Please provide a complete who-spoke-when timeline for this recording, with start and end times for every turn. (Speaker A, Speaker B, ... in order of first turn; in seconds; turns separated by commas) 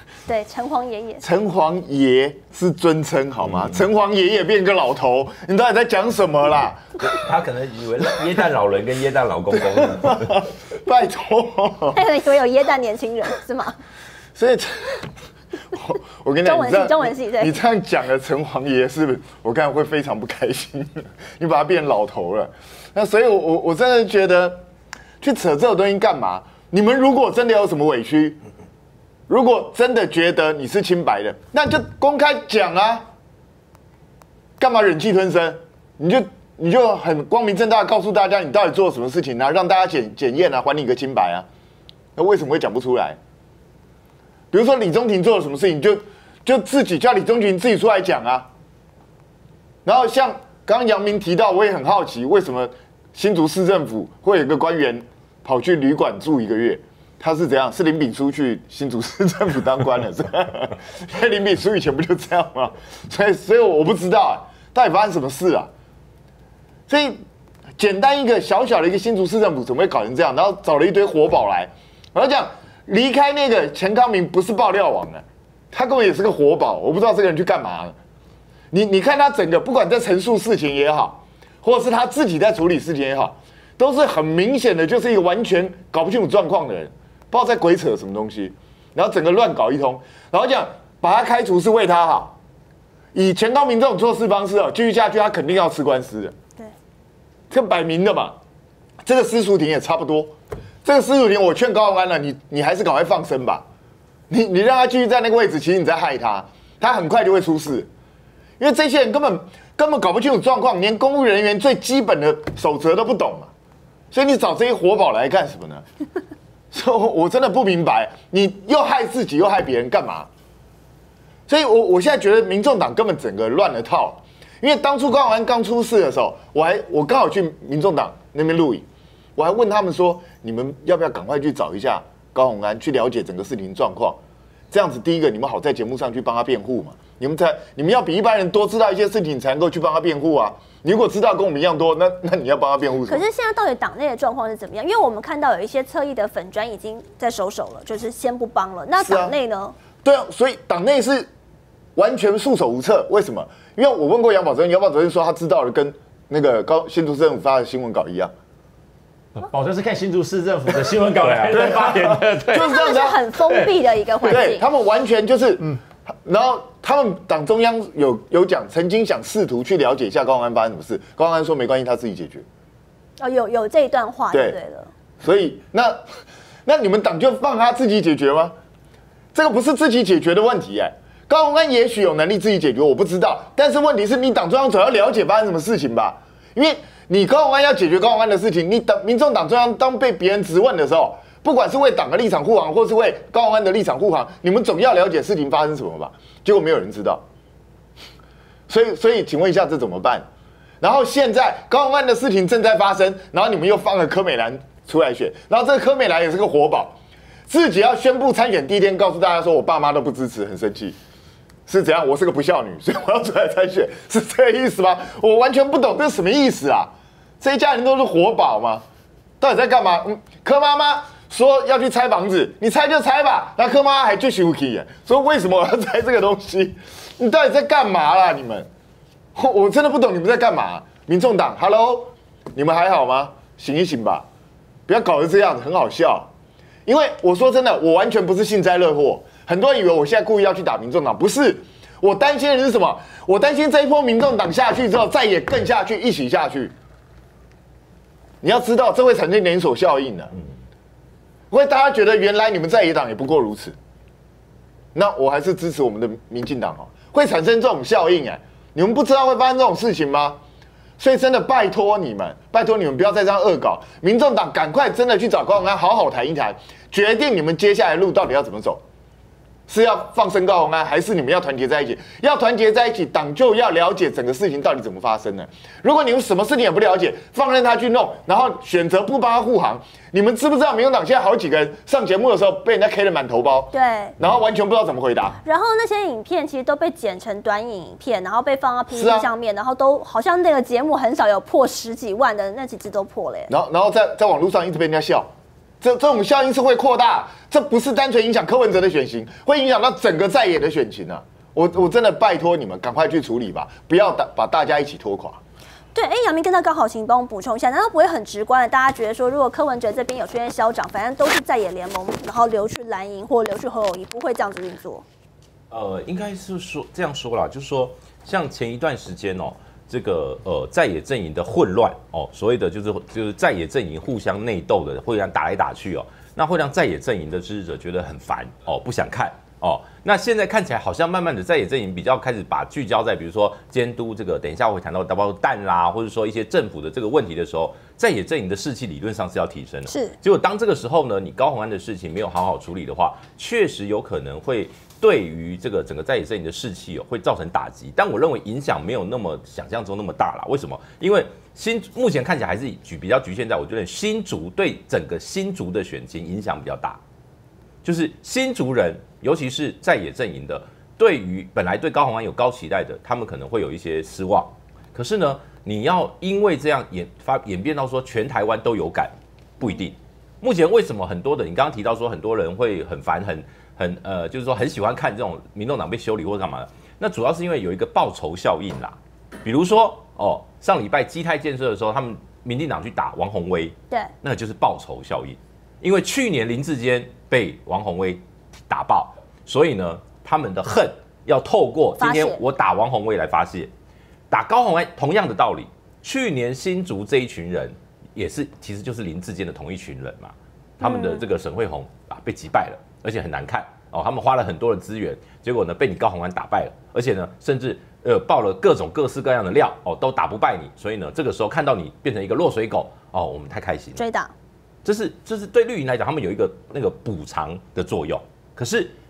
Speaker A: 0.3-1.2, Speaker B: 1.2-7.1, Speaker C: 7.0-10.4, Speaker B: 9.5-12.0, Speaker A: 11.9-13.8, Speaker B: 14.3-15.1, Speaker B: 15.7-24.7, Speaker A: 16.4-17.6, Speaker B: 25.2-28.4, Speaker B: 29.3-33.1, Speaker B: 34.6-41.5, Speaker B: 42.1-43.2, Speaker B: 44.5-48.5, Speaker B: 49.8-65.7, Speaker B: 66.9-67.2, Speaker B: 67.8-78.0, Speaker B: 78.7-92.3, Speaker B: 93.1-96.3, Speaker B: 97.5-98.4, Speaker B: 99.0-103.6, Speaker B: 104.3-107.9, Speaker B: 108.6-113.5, Speaker B: 114.1-115.8, Speaker B: 116.7-120.3, Speaker B: 121.5-134.2, Speaker B: 134.7-143.2, Speaker A: 143.1-149.8, Speaker B: 149.0-149.3, Speaker B: 150.0-151.3, Speaker B: 151.9-158.3, Speaker D: 159.3-162.8, Speaker B: 161.2-163.2, Speaker A: 162.5-164.6, Speaker B: 164.2-172.4, Speaker A: 173.2-174.9, Speaker B: 174.3-174.6, Speaker B: 175.2-176.0, Speaker B: 176.7-178.5, Speaker B: 179.3-197.2, Speaker B: 198.7-200.2, Speaker B: 200.8-206.9, Speaker B: 207.5-210.9, Speaker B: 211.7-218.8, Speaker B: 219.4-228.7, Speaker B: 229.3-234.2, Speaker B: 234.9-236.3, Speaker B: 236.8-246.7, Speaker B: 248.4-250.3, Speaker B: 251.5-253.8, Speaker B: 254.9-260.4, Speaker B: 261.0-268.8, Speaker B: 269.7-285.4, Speaker A: 283.7-284.1, Speaker A: 285.4-293.5, Speaker B: 288.9-289.3, Speaker B: 293.5-305.4, Speaker A: 305.9-315.0, Speaker C: 315.7-357.0, Speaker A: 339.9-340.2, Speaker C: 357.8-393.7, Speaker A: 392.0-392.4, Speaker C: 394.3-414.0, Speaker A: 400.8-401.2, Speaker A: 413.9-414.3, Speaker C: 414.8-418.9